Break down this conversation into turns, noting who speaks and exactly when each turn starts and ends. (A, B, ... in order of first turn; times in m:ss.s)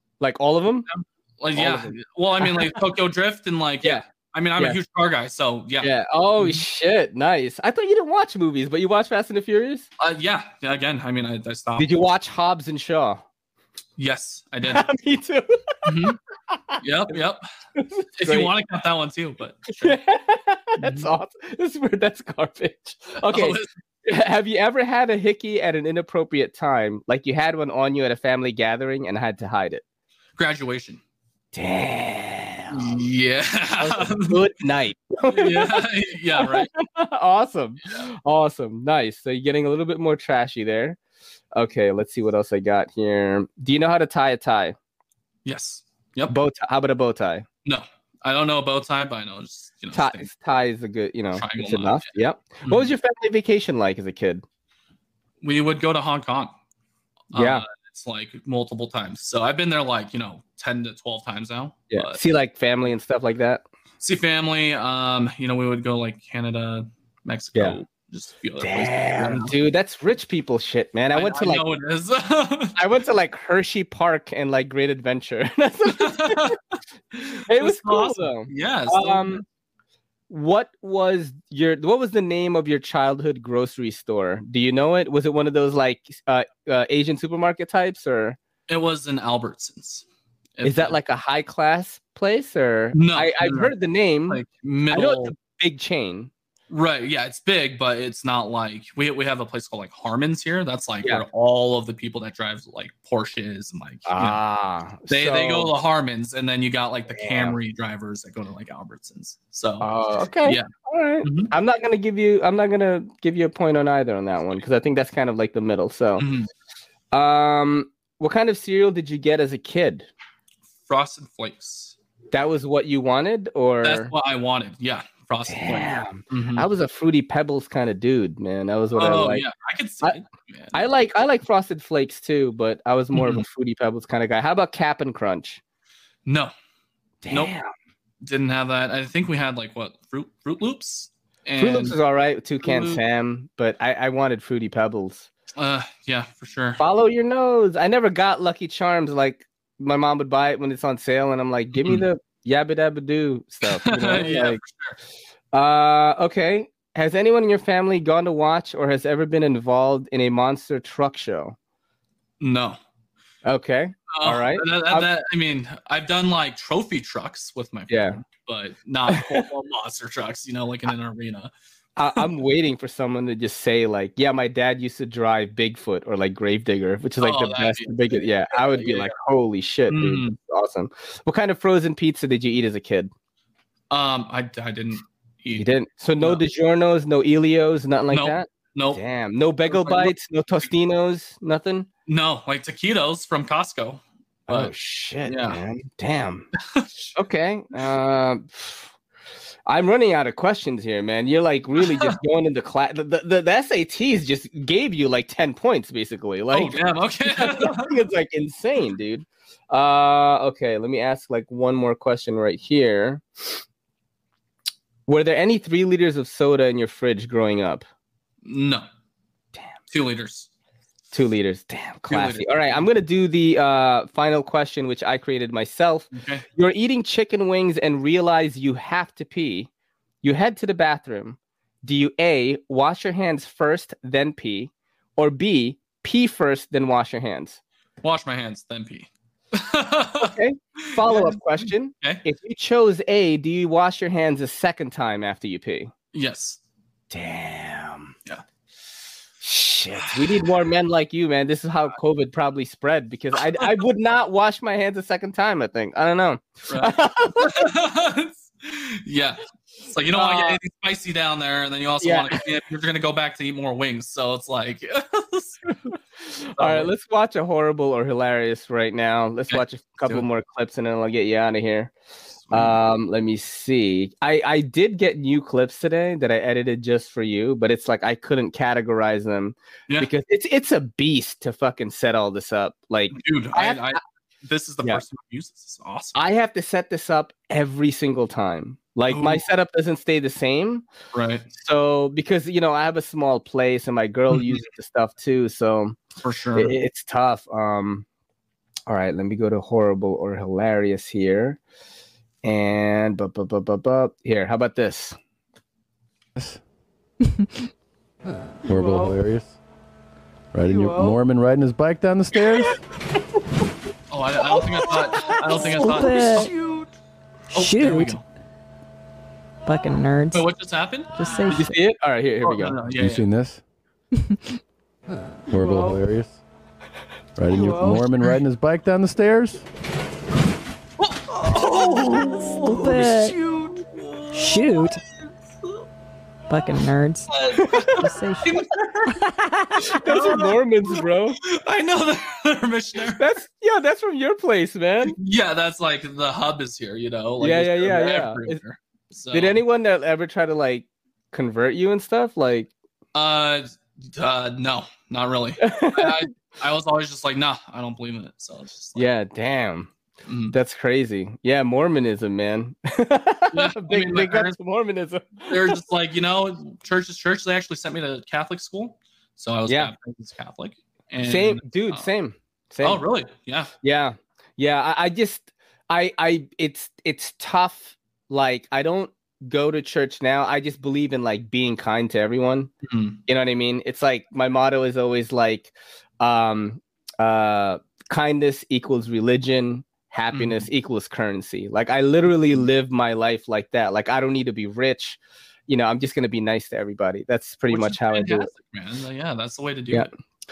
0:00.2-0:00.9 A
0:00.9-0:06.6 B
0:01.5-0:02.7 A
0:05.8-0:09.9 A
0:10.0-0:11.9 B
0:11.8-0:13.2 A
0:14.0-0:14.8 B
0:14.6-0:15.8 A
0:15.8-0:16.2 B
0:16.5-0:16.8 A
0:16.8-0:17.4 B
0:17.8-0:18.5 A
0:18.2-0:20.0 B
0:19.8-0:29.8 A
0:20.8-0:21.1 B
0:23.2-0:23.7 B
0:30.4-0:31.0 B
0:31.5-0:33.0 A
0:32.7-0:34.4 B
0:33.8-0:35.8 A
0:35.3-0:36.7 B
0:36.4-0:41.0 A
0:41.5-0:44.8 A
0:45.4-0:46.3 B
0:46.3-0:47.4 A
0:47.6-0:50.3 B
0:49.9-0:54.4 A
0:51.4-0:52.9 B
0:55.4-0:56.5 B
0:57.3-1:02.2 B
0:57.3-0:57.6 A
1:01.9-1:03.6 A
1:04.0-1:09.5 B
1:08.6-1:11.6 A
1:11.1-1:12.8 B
1:12.8-1:16.5 A
1:16.0-1:16.6 B
1:17.1-1:19.4 B
1:17.5-1:19.4 A
1:20.3-1:28.4 A
1:28.7-1:30.0 B
1:30.6-1:31.0 B
1:30.6-1:34.4 A
1:32.9-1:33.7 B
1:34.3-1:35.3 B
1:34.9-1:36.3 A
1:36.7-1:44.4 B
1:44.1-1:45.7 A
1:45.1-1:49.9 B
1:47.1-1:47.6 A
1:49.8-1:56.2 A
1:51.2-1:51.5 B
1:56.2-1:56.5 B
1:57.1-2:00.1 A
2:00.8-2:01.9 B
2:02.3-2:04.1 A
2:03.8-2:06.6 B
2:05.5-2:09.4 A
2:08.9-2:10.8 B
2:10.7-2:15.6 A
2:13.1-2:13.4 B
2:16.2-2:16.5 B
2:17.2-2:17.7 A
2:18.2-2:22.0 B
2:21.6-2:25.3 A
2:22.6-2:23.0 B
2:25.6-2:26.8 B
2:26.8-2:34.6 A
2:31.7-2:32.1 B
2:33.7-2:35.0 B
2:35.5-2:41.6 A
2:42.4-2:42.8 B
2:43.4-2:45.1 A
2:44.1-2:51.5 B
2:47.9-2:48.2 A
2:49.1-2:49.4 A
2:52.0-3:03.1 A
2:57.2-2:59.1 B
2:59.9-3:00.4 B
3:03.9-3:06.4 B
3:05.6-3:11.9 A
3:08.1-3:09.0 B
3:09.7-3:10.1 B
3:12.1-3:14.7 B
3:14.5-3:16.5 A
3:15.2-3:15.6 B
3:16.7-3:17.0 B
3:17.1-3:18.9 A
3:19.6-3:33.2 A
3:21.8-3:22.1 B
3:26.5-3:27.9 B
3:35.1-3:37.8 A
3:38.4-3:38.8 B
3:39.9-3:40.5 B
3:41.1-3:49.7 A
3:42.1-3:42.8 B
3:46.1-3:46.4 B
3:50.2-3:57.6 A
3:58.0-4:02.2 B
4:00.2-4:05.9 A
4:06.1-4:06.6 B
4:07.1-4:08.1 A
4:09.4-4:17.6 A
4:16.7-4:25.8 B
4:20.1-4:20.6 A
4:22.0-4:22.4 A
4:26.3-4:31.9 A
4:26.6-4:26.9 B
4:29.5-4:30.2 B
4:32.5-4:32.8 B
4:32.5-4:44.0 A
4:43.1-4:46.2 B
4:46.1-4:50.8 A
4:49.1-4:49.4 B
4:51.1-4:51.5 B
4:51.6-4:56.0 A
4:54.3-4:54.6 B
4:56.2-4:56.7 B
4:56.5-4:58.0 A
4:58.9-5:01.6 A
5:02.4-5:05.2 A
5:08.6-5:09.6 C
5:10.5-5:12.7 C
5:14.1-5:16.4 B
5:15.7-5:16.5 D
5:17.5-5:18.2 D
5:17.5-5:18.2 B
5:19.6-5:20.5 D
5:20.3-5:21.1 B
5:21.2-5:21.8 D
5:21.5-5:22.7 A
5:22.4-5:23.3 B
5:23.0-5:23.6 C
5:25.5-5:26.4 C
5:27.4-5:29.6 C
5:31.0-5:32.6 B
5:32.5-5:33.4 D
5:34.3-5:35.0 D
5:36.5-5:37.4 D
5:37.3-5:39.1 B
5:37.6-5:37.9 A
5:38.0-5:39.9 D
5:39.9-5:41.4 A
5:39.9-5:43.2 B
5:43.2-5:45.2 A
5:45.0-5:49.6 B
5:47.4-5:48.6 A
5:49.3-5:52.7 A
5:53.1-5:59.1 B
5:55.6-5:56.2 A
5:59.0-5:59.9 A
6:00.3-6:00.5 B
6:00.5-6:05.8 A
6:03.5-6:04.6 B
6:05.5-6:12.1 B
6:09.7-6:09.9 A
6:11.2-6:13.0 A
6:12.8-6:13.7 B
6:13.8-6:22.7 A
6:22.8-6:23.2 B
6:23.3-6:38.5 A
6:30.3-6:30.7 B
6:37.7-6:40.1 B